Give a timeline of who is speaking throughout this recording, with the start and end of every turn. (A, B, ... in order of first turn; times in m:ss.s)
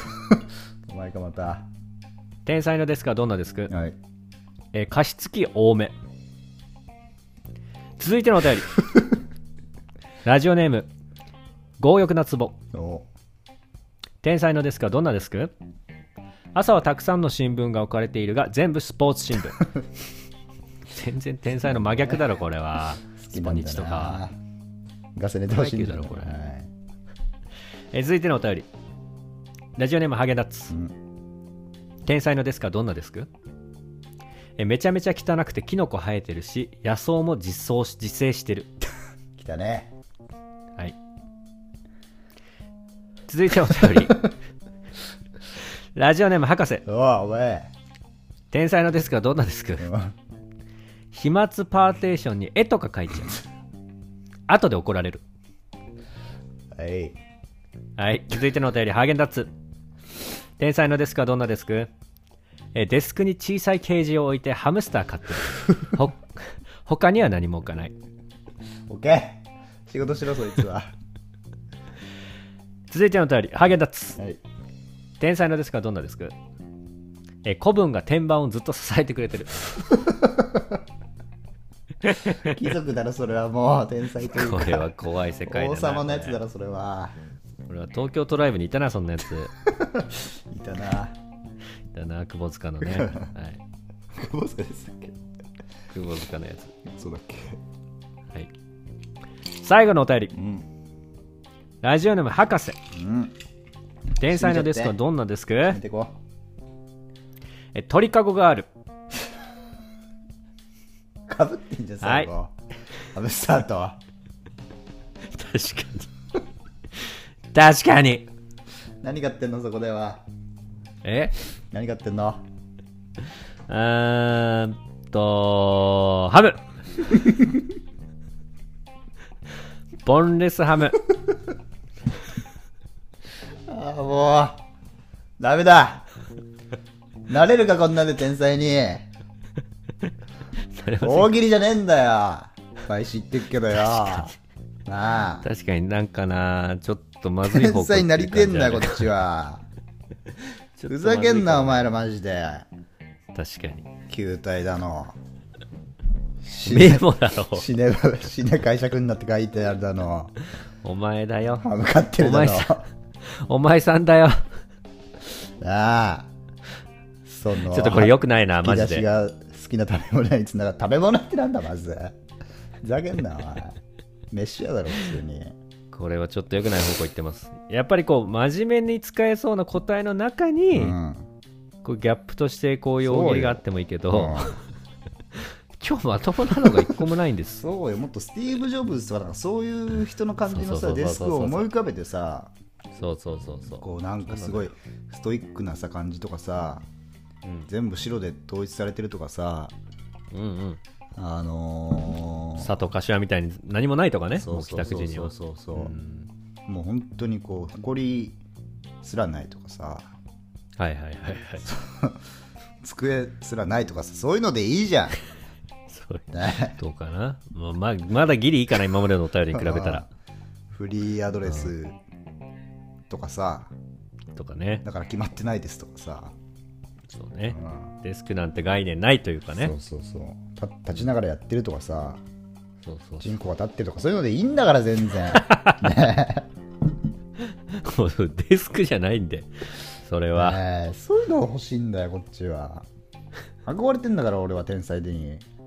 0:00.4-0:01.7 A
0:02.5-0:03.7 B
0:03.7-0:04.0 A
0:04.7-0:06.0 B
0:08.0-0:08.8 B
0:10.2-0:10.9 B
0:11.8-0:12.6 B
0:12.7-0:13.1 A
0:14.2-0:15.5 B
0:16.6-0:19.7 B
0:20.9-0:24.2 B
0:21.9-0:22.2 A
0:23.2-0:24.4 A
0:25.2-0:26.7 A
0:25.5-0:26.3 B
0:27.9-0:28.7 B
0:29.8-0:30.8 B
0:30.7-0:31.0 A
0:32.1-0:33.3 B
0:34.6-0:38.7 B
0:39.4-0:39.9 A
0:43.3-0:44.3 B
0:43.8-0:44.1 A
0:46.0-0:46.8 B
0:46.9-0:47.7 A
0:48.5-0:49.9 B
0:49.8-0:50.1 A
0:51.1-0:53.4 B
0:54.5-0:55.2 B
0:56.7-0:57.2 A
0:58.0-0:59.5 B
1:00.6-1:01.9 B
1:02.7-1:07.9 B
1:08.9-1:10.9 A
1:12.9-1:14.2 B
1:15.2-1:16.4 B
1:17.4-1:19.9 B
1:20.0-1:20.8 A
1:22.0-1:22.6 B
1:22.3-1:24.9 A
1:24.2-1:26.4 B
1:25.4-1:27.2 A
1:27.7-1:29.5 B
1:29.6-1:31.2 A
1:31.9-1:33.6 B
1:32.8-1:33.3 A
1:34.1-1:35.2 A
1:35.9-1:36.7 B
1:36.8-1:37.6 A
1:39.6-1:40.4 B
1:40.3-1:40.7 A
1:41.8-1:42.8 B
1:42.9-1:43.4 A
1:44.2-1:45.8 B
1:44.2-1:45.0 A
1:45.7-1:46.2 A
1:47.7-1:48.7 B
1:51.3-1:52.5 A
1:52.0-1:52.3 B
1:53.1-1:54.0 A
1:55.2-1:56.1 B
1:57.5-1:58.3 B
1:59.0-2:00.2 A
2:01.0-2:01.3 B
2:01.7-2:02.4 A
2:03.7-2:06.7 B
2:07.1-2:07.6 A
2:10.0-2:11.0 B
2:13.7-2:14.6 A
2:15.4-2:16.1 A
2:17.3-2:19.1 A
2:20.7-2:21.3 B
2:21.0-2:24.4 A
2:24.9-2:25.5 A
2:25.4-2:29.1 B
2:27.4-2:29.7 A
2:30.4-2:31.9 B
2:30.9-2:32.7 A
2:33.3-2:33.9 B
2:34.1-2:35.2 A
2:36.4-2:40.3 A
2:36.7-2:37.7 B
2:40.8-2:44.5 B
2:41.6-2:42.9 A
2:45.6-2:46.3 A
2:47.2-2:52.2 A
2:47.6-2:49.1 B
2:52.8-2:53.8 A
2:54.3-2:55.6 A
2:55.9-3:01.0 B
3:00.7-3:01.3 A
3:01.8-3:04.7 B
3:03.0-3:04.6 A
3:05.3-3:07.6 B
3:06.6-3:06.9 A
3:07.6-3:12.5 A
3:10.5-3:11.7 B
3:13.0-3:14.7 B
3:13.8-3:16.9 A
3:17.4-3:17.7 B
3:17.7-3:19.7 A
3:20.3-3:20.8 B
3:21.2-3:22.7 A
3:22.6-3:26.3 B
3:24.4-3:26.0 A
3:26.7-3:28.4 A
3:29.0-3:30.1 A
3:30.8-3:31.6 B
3:31.6-3:32.2 A
3:32.8-3:35.2 A
3:35.9-3:40.1 B
3:36.3-3:36.8 A
3:39.5-3:40.1 A
3:40.7-3:42.0 A
3:43.1-3:43.7 A
3:44.4-3:44.8 B
3:44.8-3:46.3 A
3:47.1-3:49.7 B
3:47.5-3:47.9 A
3:49.6-3:52.2 A
3:52.8-3:53.3 B
3:53.2-3:56.5 A
3:55.3-3:55.9 B
3:57.4-4:00.6 B
4:00.4-4:02.9 A
4:03.6-4:05.5 A